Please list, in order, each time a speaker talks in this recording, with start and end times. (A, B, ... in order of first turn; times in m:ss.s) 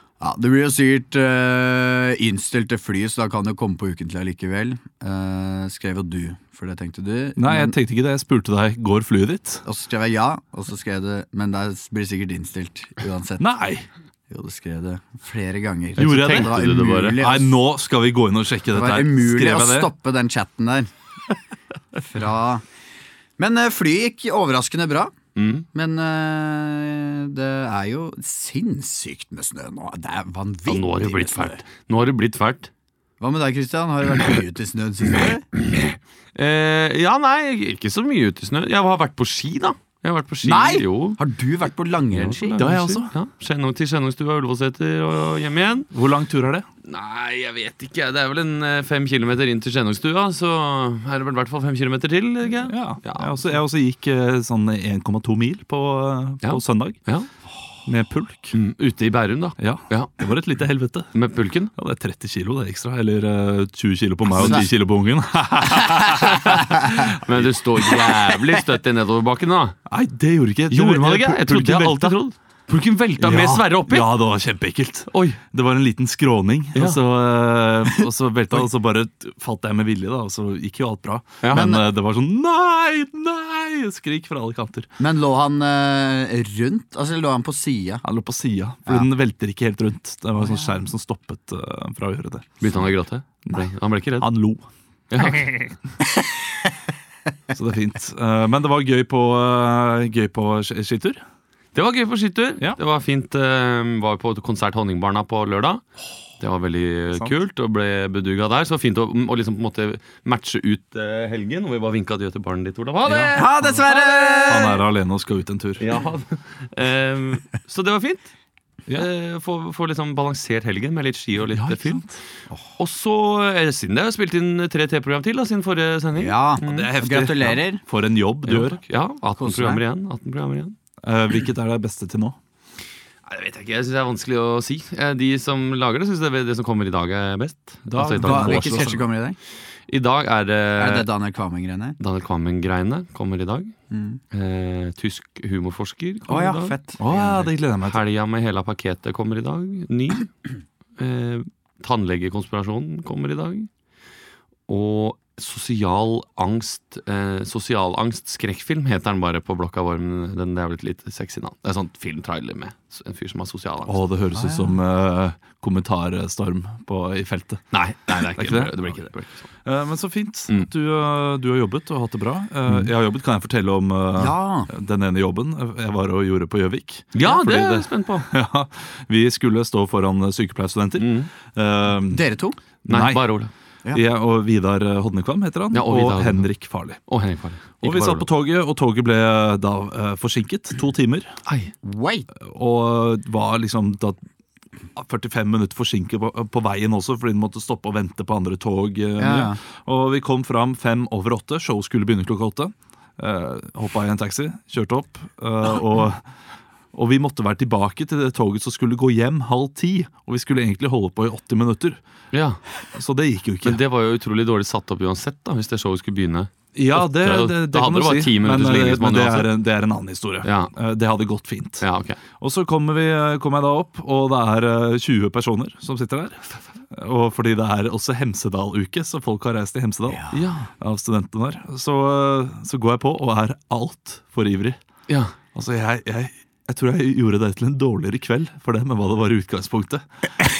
0:00.2-0:07.7 A
0:07.4-0:09.6 B
0:09.6-0:13.5 A
0:13.4-0:13.8 B
0:14.3-0:17.5 A
0:16.0-0:19.9 B
0:16.0-0:17.2 C
0:18.7-0:20.9 A
0:22.0-0:22.6 A
0:23.4-0:25.1 A
0:25.4-0:25.6 C
0:25.7-0:31.6 A
0:30.7-0:32.7 C
0:33.2-0:35.4 A
0:35.7-0:41.2 C
0:40.4-0:42.6 A
0:42.1-0:45.9 C
0:42.6-0:43.1 B
0:45.9-0:46.6 B
0:46.8-0:53.5 C
0:52.6-0:57.0 B
0:56.4-0:57.3 C
0:57.8-0:58.6 B
0:58.5-1:00.1 C
0:59.6-1:01.1 B
1:01.1-1:01.7 C
1:01.8-1:07.5 B
1:04.4-1:04.6 A
1:07.1-1:09.8 C
1:09.9-1:12.2 B
1:10.7-1:14.1 C
1:13.2-1:24.9 B
1:15.1-1:15.4 C
1:21.4-1:21.6 C
1:21.5-1:21.8 A
1:25.0-1:28.0 A
1:28.0-1:32.8 B
1:32.6-1:34.3 C
1:34.2-1:34.7 B
1:35.1-1:35.6 C
1:37.5-1:41.2 B
1:41.7-1:45.8 C
1:46.4-1:53.4 C
1:53.0-1:54.8 A
1:54.4-1:55.8 B
1:55.8-1:58.3 C
1:58.9-2:02.0 C
2:01.5-2:02.1 B
2:02.8-2:06.9 C
2:06.2-2:07.8 A
2:06.6-2:08.8 B
2:08.4-2:10.7 C
2:09.4-2:09.8 A
2:11.0-2:12.4 B
2:13.2-2:18.8 C
2:17.9-2:19.0 B
2:18.2-2:19.4 A
2:19.9-2:21.1 C
2:20.8-2:22.0 A
2:22.0-2:23.7 C
2:23.9-2:24.2 A
2:24.3-2:26.8 C
2:26.3-2:27.4 A
2:27.0-2:28.0 B
2:27.8-2:30.3 C
2:31.0-2:33.7 C
2:34.7-2:44.0 C
2:43.9-2:49.1 B
2:44.4-2:44.6 A
2:47.7-2:49.4 C
2:49.6-3:02.2 B
2:54.2-2:54.7 A
2:57.1-2:58.3 C
3:01.0-3:01.3 C
3:02.1-3:02.6 A
3:02.8-3:03.3 B
3:02.9-3:03.5 C
3:03.9-3:07.0 B
3:05.7-3:06.5 C
3:07.0-3:08.3 C
3:07.8-3:11.3 B
3:11.5-3:11.7 C
3:11.8-3:12.3 A
3:12.4-3:14.2 B
3:15.0-3:26.2 B
3:19.2-3:19.6 A
3:26.9-3:32.0 B
3:32.3-3:32.6 C
3:32.9-3:33.8 B
3:33.6-3:39.5 C
3:36.7-3:41.8 B
3:40.4-3:40.7 C
3:41.8-3:42.2 C
3:42.4-3:54.8 B
3:50.3-3:50.7 C
3:55.1-3:55.3 C
3:55.5-4:00.0 B